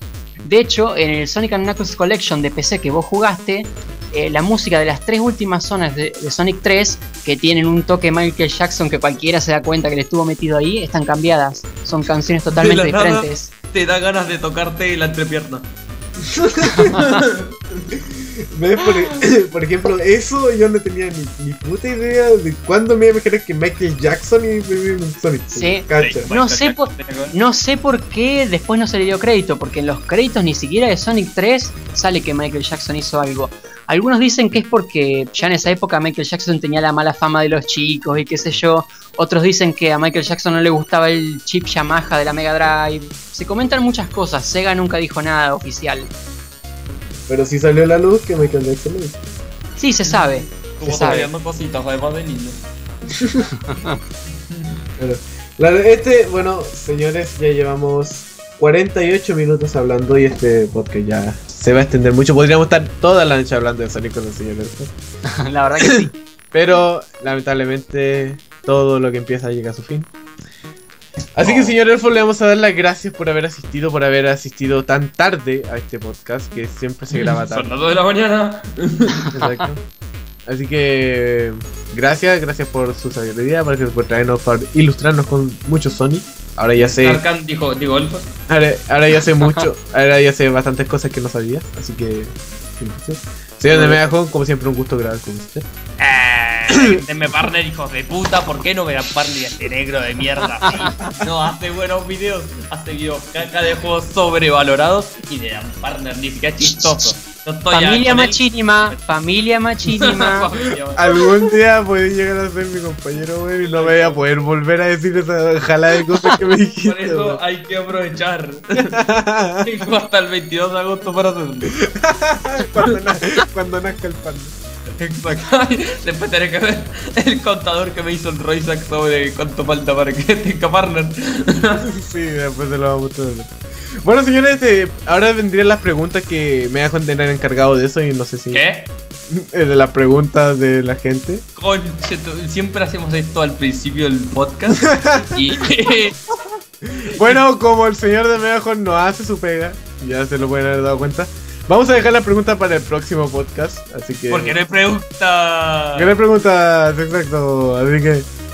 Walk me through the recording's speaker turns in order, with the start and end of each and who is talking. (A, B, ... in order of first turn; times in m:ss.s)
0:00.4-0:13.5 A
0:12.5-0:15.7 B
0:16.2-0:17.2 C
0:16.7-0:17.0 A
0:17.0-0:17.5 B
0:17.8-0:26.2 C
0:25.5-0:46.1 A
0:25.9-0:27.3 B
0:47.3-0:49.2 C
0:49.8-0:51.3 A
0:50.0-0:52.6 B
0:50.8-0:51.2 C
0:53.2-0:53.5 C
0:53.6-0:54.0 A
0:55.0-1:04.9 C
1:05.3-1:06.1 A
1:05.8-1:10.1 C
1:11.4-1:17.7 C
1:11.4-1:11.8 B
1:17.1-1:19.4 B
1:19.3-1:19.8 C
1:20.4-1:27.2 C
1:26.8-1:28.3 B
1:28.5-1:35.7 C
1:33.7-1:34.1 B
1:36.0-1:49.0 B
1:36.7-1:37.0 C
1:40.6-1:41.0 A
1:46.6-1:47.1 A
1:47.7-1:50.5 A
1:49.9-1:51.1 B
1:50.9-1:57.4 C
1:53.6-1:54.2 B
1:56.8-1:59.0 B
1:58.8-1:59.8 C
1:59.6-2:01.9 B
2:01.9-2:04.5 C
2:05.0-2:11.9 B
2:11.9-2:18.6 C
2:18.5-2:18.9 B
2:19.3-2:21.4 C
2:21.6-2:26.2 B
2:24.8-2:25.6 C
2:26.8-2:34.6 C
2:27.1-2:27.4 B
2:34.3-2:36.2 B
2:35.9-2:38.3 C